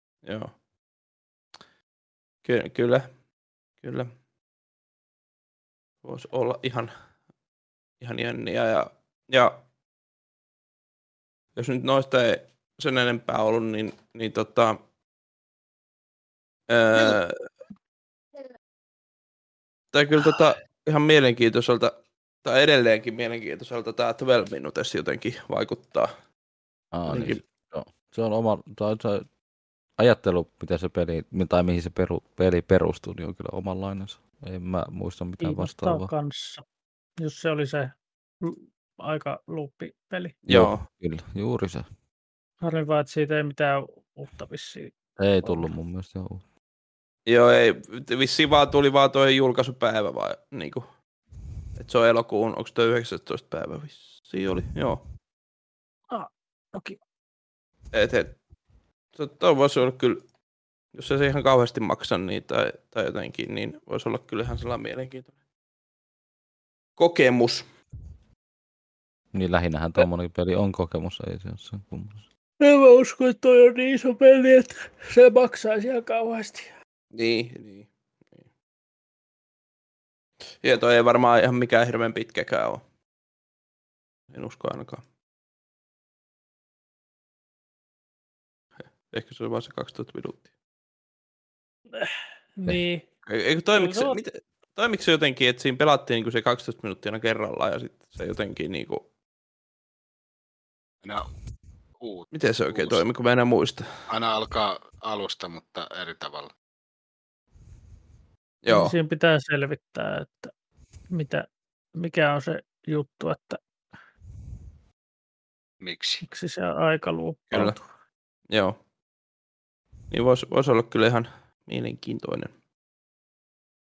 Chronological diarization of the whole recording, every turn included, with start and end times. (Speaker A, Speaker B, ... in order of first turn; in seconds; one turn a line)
Speaker A: 0.2-0.5
Speaker A: 2.4-3.1
Speaker A: 3.8-4.1
Speaker A: 6.0-6.9
Speaker A: 8.0-9.6
Speaker A: 11.6-14.8
Speaker A: 16.7-17.3
Speaker A: 19.9-21.9
Speaker A: 22.4-26.1
Speaker B: 26.9-29.2
Speaker A: 27.1-27.4
Speaker B: 30.0-36.1
Speaker C: 35.4-36.6
Speaker C: 37.2-40.3
Speaker A: 40.4-40.8
Speaker B: 40.5-41.9
Speaker C: 42.6-45.7
Speaker B: 45.2-46.4
Speaker A: 47.2-50.9
Speaker A: 51.8-55.0
Speaker C: 56.1-57.0
Speaker A: 57.9-58.4
Speaker A: 59.1-60.2
Speaker A: 60.9-65.3
Speaker A: 67.0-67.6
Speaker B: 69.3-72.2
Speaker C: 72.6-76.7
Speaker A: 77.1-78.4
Speaker A: 80.6-82.8
Speaker A: 84.3-85.0
Speaker A: 89.1-90.5
Speaker C: 91.9-93.0
Speaker A: 93.2-99.0
Speaker C: 93.7-94.2
Speaker D: 101.0-101.3
Speaker D: 102.0-103.0
Speaker A: 102.3-103.9
Speaker D: 104.1-106.5
Speaker A: 108.6-108.9
Speaker C: 108.7-110.5
Speaker C: 111.1-113.6
Speaker D: 115.8-116.2
Speaker C: 116.2-117.9
Speaker A: 117.5-117.8
Speaker A: 118.5-118.8
Speaker A: 120.1-122.5